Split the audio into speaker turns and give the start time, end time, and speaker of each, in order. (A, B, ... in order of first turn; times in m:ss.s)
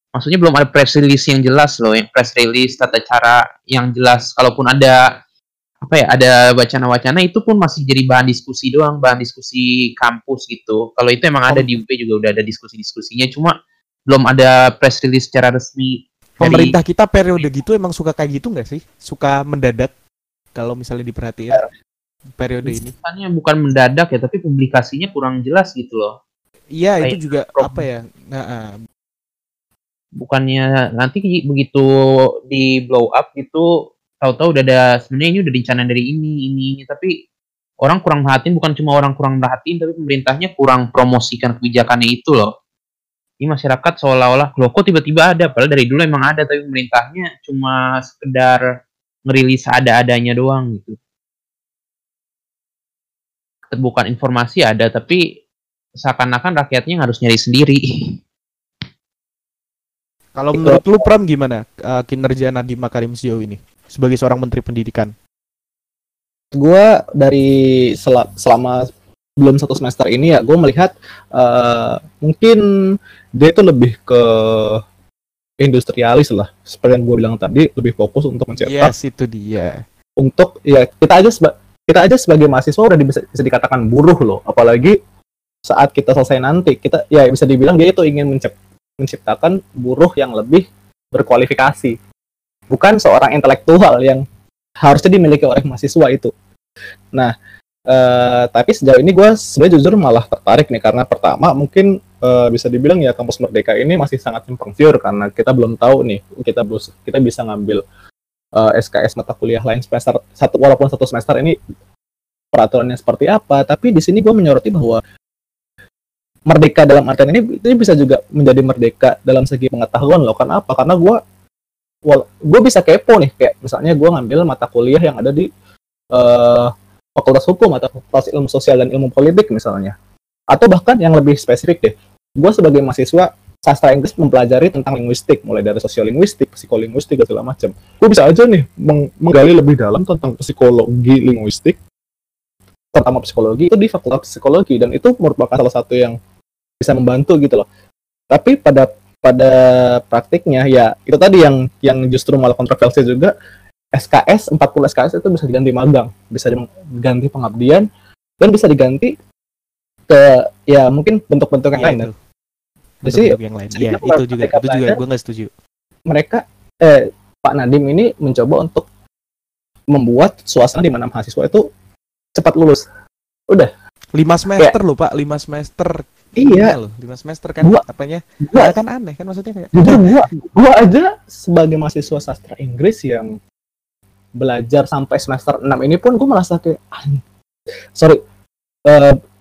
0:00.1-0:05.0 A
0:05.8-0:13.5 A
0:14.1-0:16.7 A
0:16.4-0:19.9 B
0:20.6-0:21.6 B
0:22.4-0:22.9 B
0:22.6-0:26.1 A
0:26.7-0:28.9 B
0:27.0-0:27.8 A
0:30.2-0:31.9 A
0:32.5-0:33.7 A
0:34.2-0:37.1 A
0:37.8-0:42.5 A
0:43.4-0:48.6 A
0:49.3-0:51.0 A
0:53.7-0:55.2 A
0:56.0-0:58.2 A
1:00.4-1:05.1 B
1:00.5-1:01.0 C
1:06.5-1:08.9 C
1:09.4-1:12.6 C
1:13.3-1:14.8 C
1:15.6-1:18.9 C
1:18.6-1:19.8 B
1:20.2-1:25.0 C
1:25.7-1:32.0 C
1:32.7-1:34.2 C
1:34.8-1:36.3 C
1:37.9-1:47.8 C
1:48.6-1:51.6 C
1:52.5-1:55.0 C
1:56.5-2:01.2 C
2:02.0-2:05.5 C
2:06.1-2:10.0 C
2:10.5-2:21.8 C
2:22.9-2:26.2 C
2:26.8-2:27.7 C
2:28.3-2:33.3 C
2:33.9-2:37.9 C
2:38.4-2:39.1 C
2:40.1-2:42.1 C
2:41.8-2:42.1 B
2:43.0-2:45.5 B
2:43.1-2:45.0 C
2:46.1-2:48.9 C
2:49.9-2:51.7 C
2:52.4-2:52.9 C
2:54.2-3:00.5 B
2:56.4-2:56.8 C
2:58.4-2:58.7 C
2:59.7-3:03.4 C
3:04.4-3:07.2 C
3:08.0-3:08.2 C
3:08.9-3:09.2 C